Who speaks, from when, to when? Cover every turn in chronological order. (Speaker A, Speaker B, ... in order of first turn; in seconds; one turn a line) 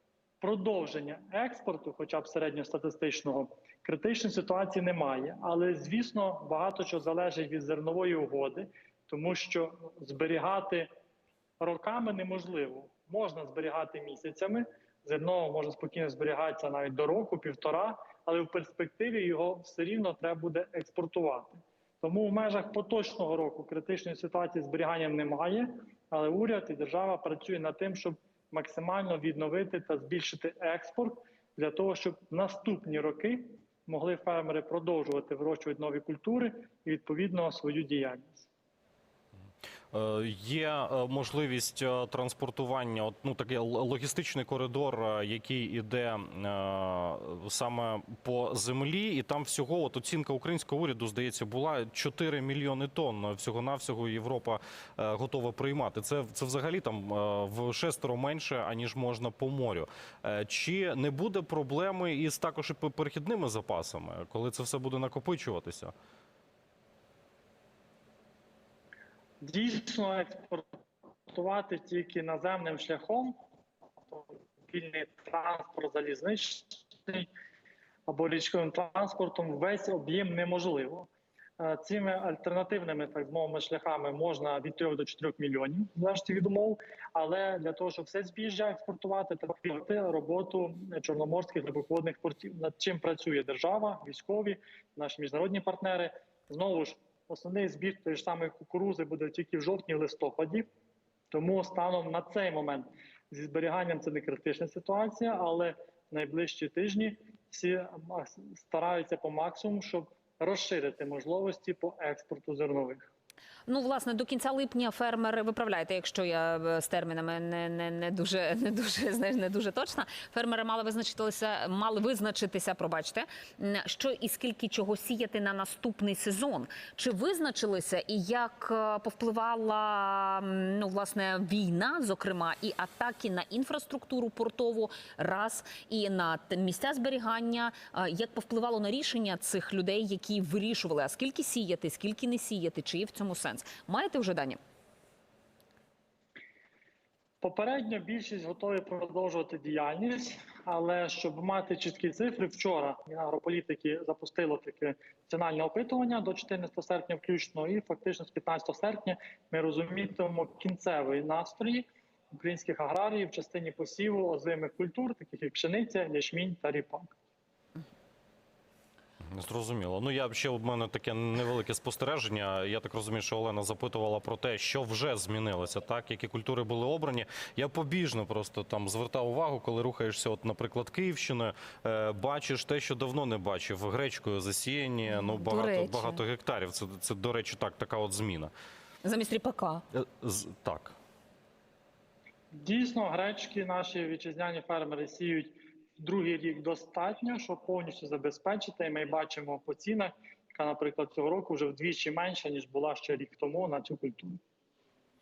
Speaker A: 0.4-10.9
Speaker A: 11.6-38.5
Speaker B: 39.9-65.9
Speaker A: 69.4-70.6
Speaker A: 71.3-73.3
Speaker A: 74.1-77.3
Speaker A: 78.1-81.1
Speaker A: 81.6-100.7
Speaker A: 101.3-113.0
Speaker C: 113.7-144.6
Speaker A: 147.4-167.1
Speaker B: 169.3-188.5
Speaker C: 185.1-186.2
Speaker C: 189.0-189.8
Speaker B: 189.9-190.9
Speaker A: 192.6-204.4